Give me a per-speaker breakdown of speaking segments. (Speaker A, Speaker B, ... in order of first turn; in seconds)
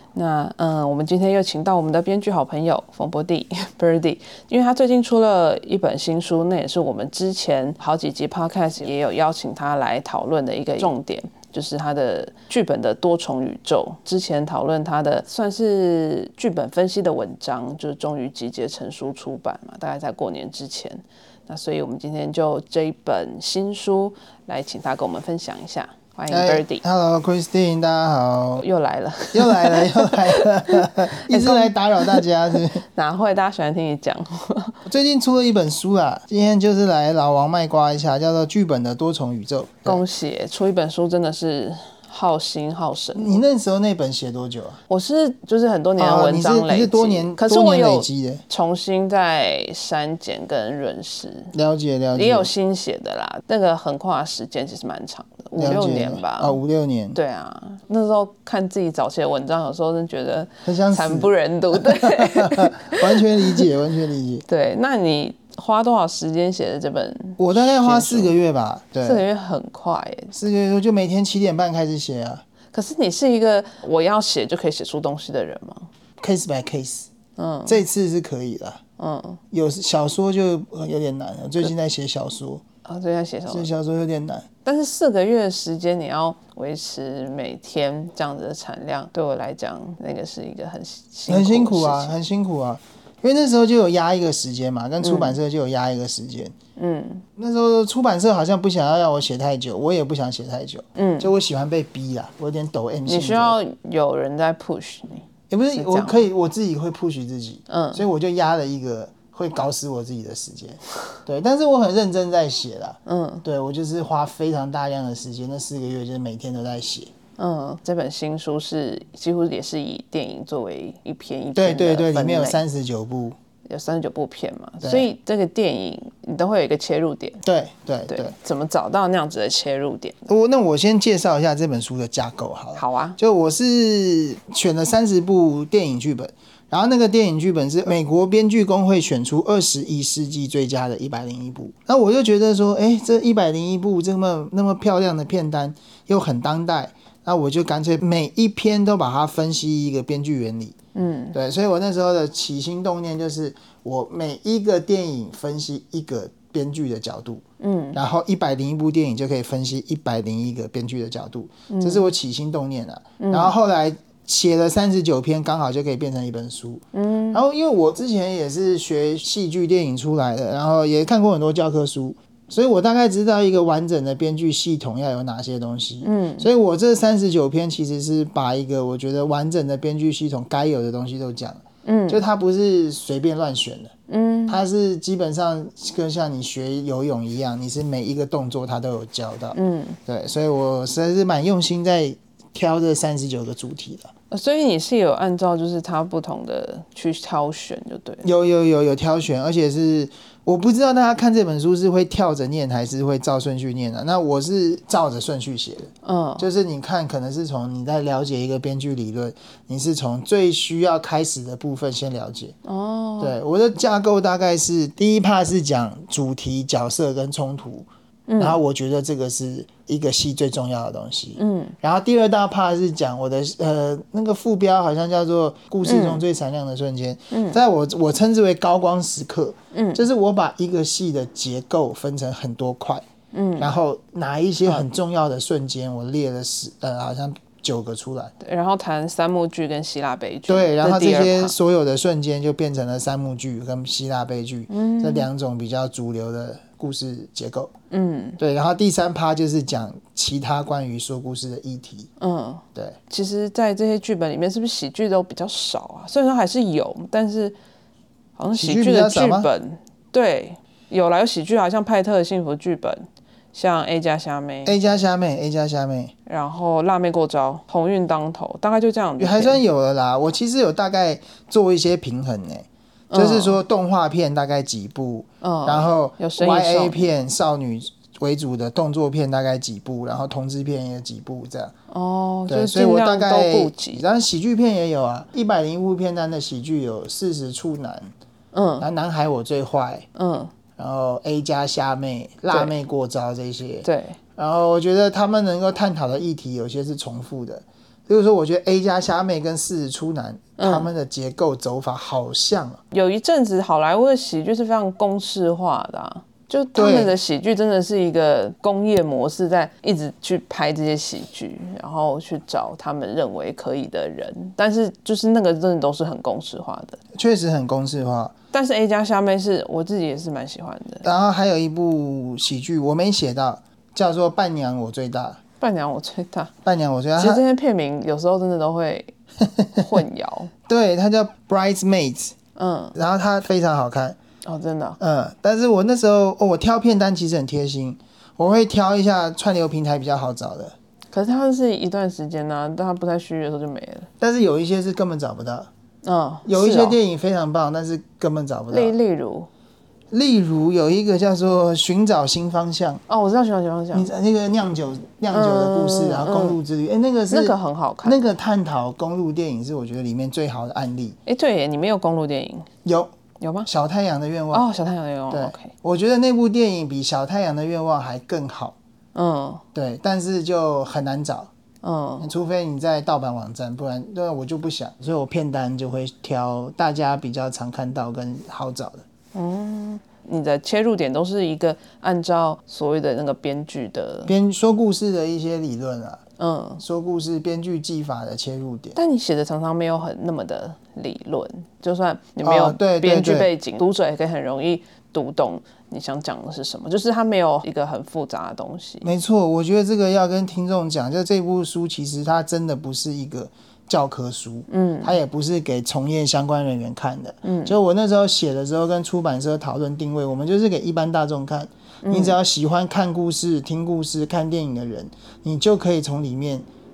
Speaker A: 0.1-26.8, 28.6-32.3, 32.8-34.8, 39.8-43.4, 44.9-51.5, 52.1-56.6, 57.1-63.6, 64.5-68.3, 69.0-70.3, 72.7-75.9, 77.4-77.8, 79.0-79.4, 82.8-83.7, 84.6-92.1, 95.0-95.4, 96.8-97.2, 101.0-101.3, 103.0-106.2, 107.7-108.0, 113.0-113.4, 117.4-122.6, 123.7-127.4, 128.1-130.3, 132.8-133.2, 150.9-151.3, 157.6-158.0, 161.7-162.1, 163.2-163.5, 166.9-167.4, 176.0-176.5, 181.8-182.2, 184.1-184.6, 189.5-190.0, 194.3-198.3, 206.0-206.4, 212.6-213.3, 218.3-218.6, 221.4-221.8, 225.8-226.2, 227.3-227.6, 229.7-230.0, 233.3-233.7, 238.4-241.6, 244.7-245.3, 247.9-248.4, 252.2-257.5, 258.4-264.8, 266.2-269.6, 273.1-273.6, 275.4-277.1, 281.9-284.0, 288.5-288.9, 290.1-290.5, 293.8-294.2, 300.6-300.9, 302.9-317.0, 318.5-321.1, 325.6-326.5, 327.2-329.1, 329.7-330.5, 332.6-332.9, 334.4-335.0, 341.1-344.1, 346.0-347.0, 348.7-349.5, 353.1-354.1, 355.3-356.6, 357.3-358.2, 361.2-362.7, 363.4-363.7, 364.5-365.7, 369.1-369.6, 371.8-372.3, 379.3-384.3, 386.4-386.8, 388.9-399.1, 404.7-405.2, 407.4-407.8, 412.0-412.4
Speaker B: 26.3-28.6, 29.3-32.8, 34.9-40.0, 43.1-44.8, 46.0-48.4, 51.5-52.5, 55.5-57.2, 60.6-64.4, 67.4-69.2, 70.3-72.4, 76.2-77.1, 77.7-78.8, 79.5-82.6, 83.5-84.5, 91.3-96.5, 97.3-103.6, 105.5-117.1, 121.5-123.4, 124.8-125.1, 127.4-128.3, 130.3-150.8, 151.3-157.4, 157.9-183.9, 184.5-194.1, 198.2-212.6, 213.2-217.9, 218.4-233.0, 233.6-238.3, 240.5-247.7, 248.4-252.1, 258.6-259.5, 264.6-266.1, 269.2-281.7, 282.5-288.1, 288.8-290.1, 290.8-302.8, 306.8-307.1, 317.1-318.3, 321.0-325.4, 326.6-327.4, 329.4-330.0, 330.7-332.3, 332.9-334.2, 335.0-340.7, 344.2-345.7, 346.4-348.9, 350.1-353.0, 353.9-361.1, 362.8-363.1, 363.6-364.7, 365.3-368.8, 369.7-371.5, 372.2-379.0, 384.2-386.2, 386.8-389.0, 392.4-393.5, 399.0-416.6